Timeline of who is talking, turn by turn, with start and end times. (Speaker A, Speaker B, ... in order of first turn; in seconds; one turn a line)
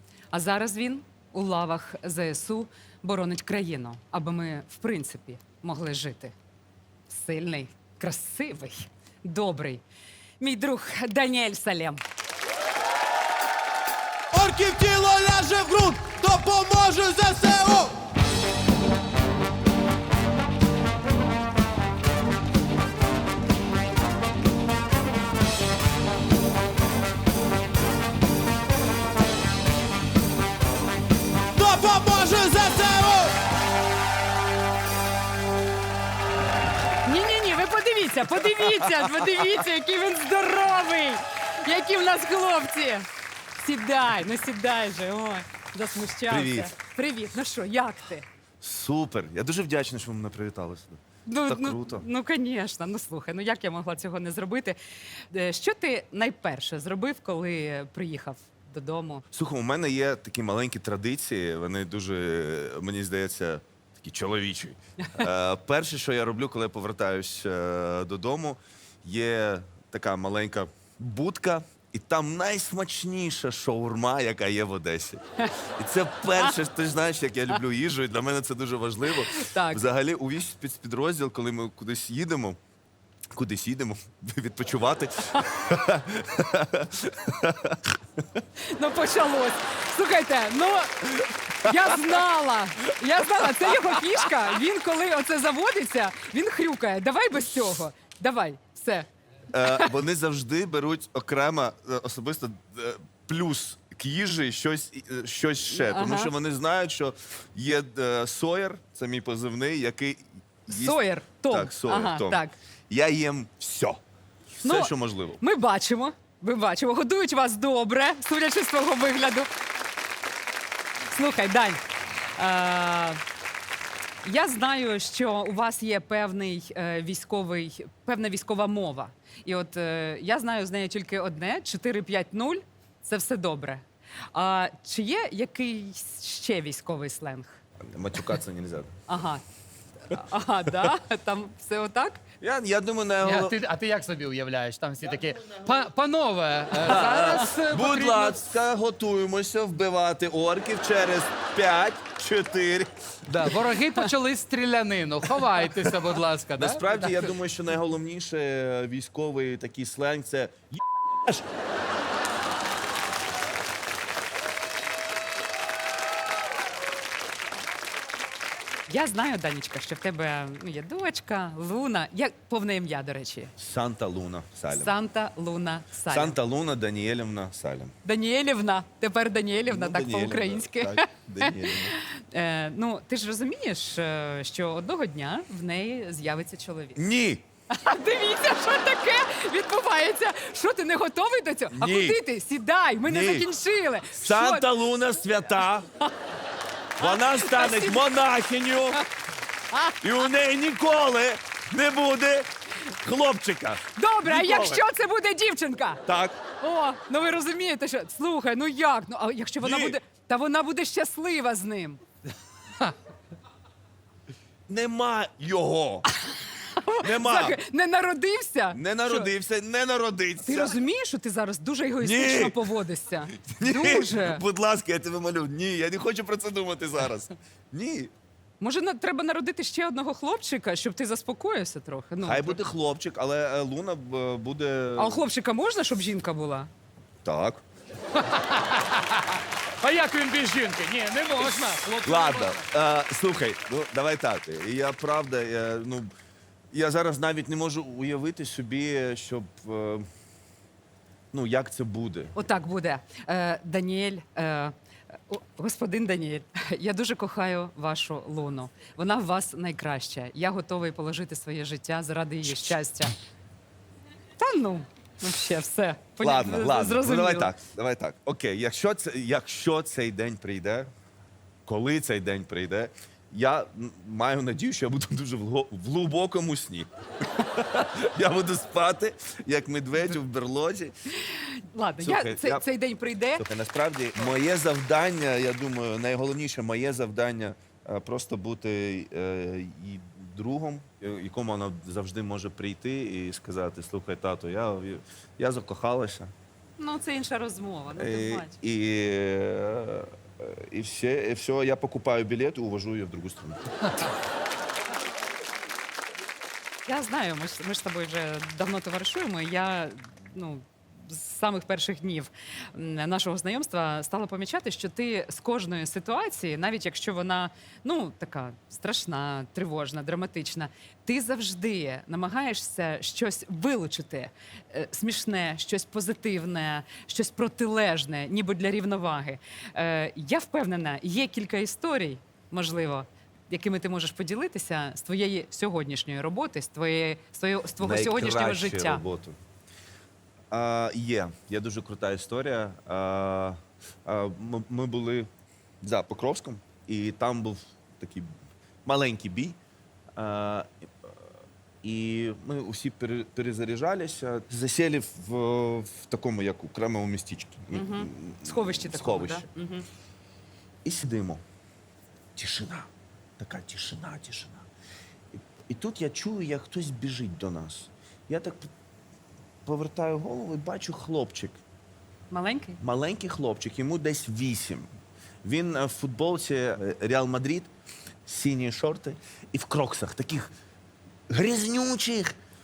Speaker A: 0.3-6.3
Speaker A: 7.1-9.8
Speaker A: 10.4-12.0
Speaker B: 14.3-17.9
Speaker B: 31.6-33.4
Speaker A: 37.0-43.1
Speaker C: 38.4-39.5
Speaker A: 43.6-48.3
Speaker C: 46.3-46.7
Speaker C: 48.6-52.1
Speaker A: 51.3-54.8
Speaker A: 55.3-59.2
Speaker C: 59.3-82.6
Speaker A: 79.1-79.8
Speaker C: 83.3-87.9
Speaker A: 88.6-99.9
Speaker C: 99.5-114.0
Speaker A: 105.7-106.3
Speaker A: 110.7-112.6
Speaker C: 114.6-115.4
Speaker A: 114.6-119.5
Speaker A: 121.1-121.8
Speaker A: 122.3-123.2
Speaker A: 124.2-137.6
Speaker C: 137.9-138.9
Speaker A: 139.1-139.4
Speaker A: 140.1-142.2
Speaker C: 142.4-143.6
Speaker D: 143.2-148.6
Speaker C: 146.8-153.3
Speaker D: 153.3-157.3
Speaker C: 156.6-161.5
Speaker A: 168.9-173.5
Speaker C: 173.6-174.9
Speaker A: 174.7-176.4
Speaker C: 176.1-177.9
Speaker A: 178.0-187.0
Speaker C: 179.7-182.0
Speaker C: 187.0-187.4
Speaker A: 187.7-194.7
Speaker C: 191.7-192.2
Speaker C: 193.0-193.5
Speaker C: 194.2-195.9
Speaker C: 197.0-199.0
Speaker A: 197.0-198.2
Speaker C: 200.0-204.8
Speaker A: 204.0-206.0
Speaker C: 206.1-206.4
Speaker A: 206.6-212.0
Speaker C: 209.6-210.0
Speaker C: 214.7-216.1
Speaker A: 216.3-219.3
Speaker C: 217.0-217.6
Speaker C: 218.7-220.8
Speaker A: 220.4-224.4
Speaker C: 222.0-222.6
Speaker C: 223.4-228.1
Speaker A: 228.6-232.6
Speaker C: 232.2-235.2
Speaker A: 235.0-236.7
Speaker C: 237.2-237.6
Speaker D: 238.2-242.6
Speaker C: 241.4-246.1
Speaker C: 246.7-250.1
Speaker C: 251.3-252.3
Speaker A: 252.3-254.7
Speaker A: 255.3-263.1
Speaker A: 264.4-267.5
Speaker C: 266.2-270.9
Speaker C: 271.7-281.0
Speaker A: 281.2-283.5
Speaker C: 282.0-282.7
Speaker C: 283.4-296.3
Speaker A: 296.8-298.6
Speaker C: 297.9-304.1
Speaker A: 306.9-339.0
Speaker C: 337.8-339.4
Speaker C: 340.5-345.3
Speaker C: 345.8-348.3
Speaker C: 348.9-349.6
Speaker C: 350.2-351.1
Speaker C: 351.8-359.5
Speaker A: 357.7-359.9
Speaker C: 360.9-361.4
Speaker C: 362.4-364.7
Speaker C: 365.4-368.7
Speaker C: 369.6-371.6
Speaker A: 372.3-372.8
Speaker C: 372.8-374.9
Speaker C: 375.4-377.7
Speaker C: 378.3-380.5
Speaker C: 381.3-382.4